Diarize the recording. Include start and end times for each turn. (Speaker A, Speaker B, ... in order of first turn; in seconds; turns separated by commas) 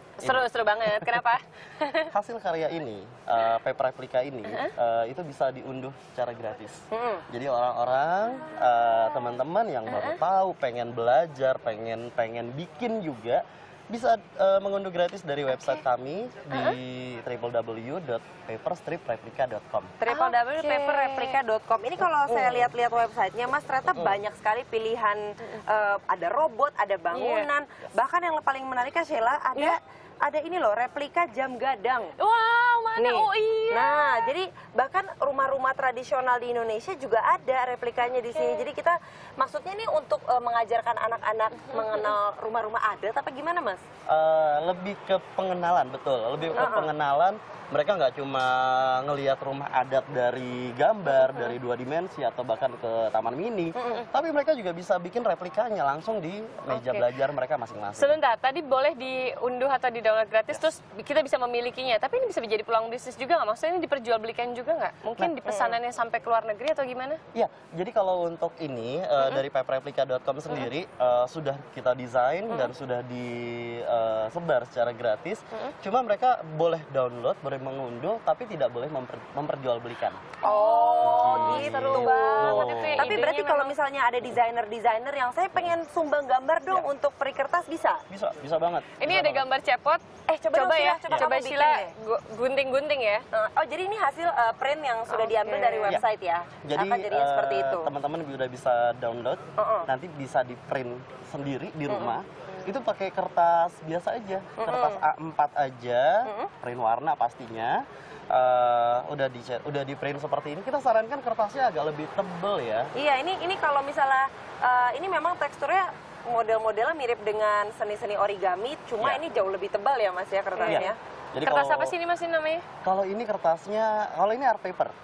Speaker A: 0.2-2.1, Speaker B: 0.2-1.2, Speaker B: 2.1-19.9, Speaker A: 4.5-4.7, Speaker C: 6.9-7.2, Speaker A: 9.9-10.2, Speaker A: 15.5-15.8, Speaker A: 16.5-16.8, Speaker C: 20.0-32.1, Speaker A: 20.1-21.4, Speaker B: 23.9-24.2, Speaker A: 27.1-27.5, Speaker A: 32.2-34.3, Speaker C: 33.0-43.8, Speaker A: 38.3-38.6, Speaker A: 41.7-42.1, Speaker B: 44.1-58.2, Speaker C: 46.5-46.9, Speaker A: 51.1-51.5, Speaker C: 53.7-54.0, Speaker A: 56.7-57.1, Speaker A: 58.0-67.2, Speaker C: 65.5-65.8, Speaker B: 67.3-80.2, Speaker A: 80.4-83.7, Speaker C: 80.4-88.0, Speaker B: 81.0-83.2, Speaker B: 88.1-89.5, Speaker A: 89.0-93.2, Speaker C: 90.3-91.9, Speaker C: 93.3-97.9, Speaker A: 95.1-96.0, Speaker B: 96.6-112.9, Speaker C: 99.6-99.9, Speaker C: 101.9-102.2, Speaker C: 104.6-105.0, Speaker C: 106.2-106.5, Speaker C: 112.9-121.0, Speaker A: 120.6-120.9, Speaker B: 120.7-121.9, Speaker A: 121.4-122.6, Speaker B: 122.8-124.9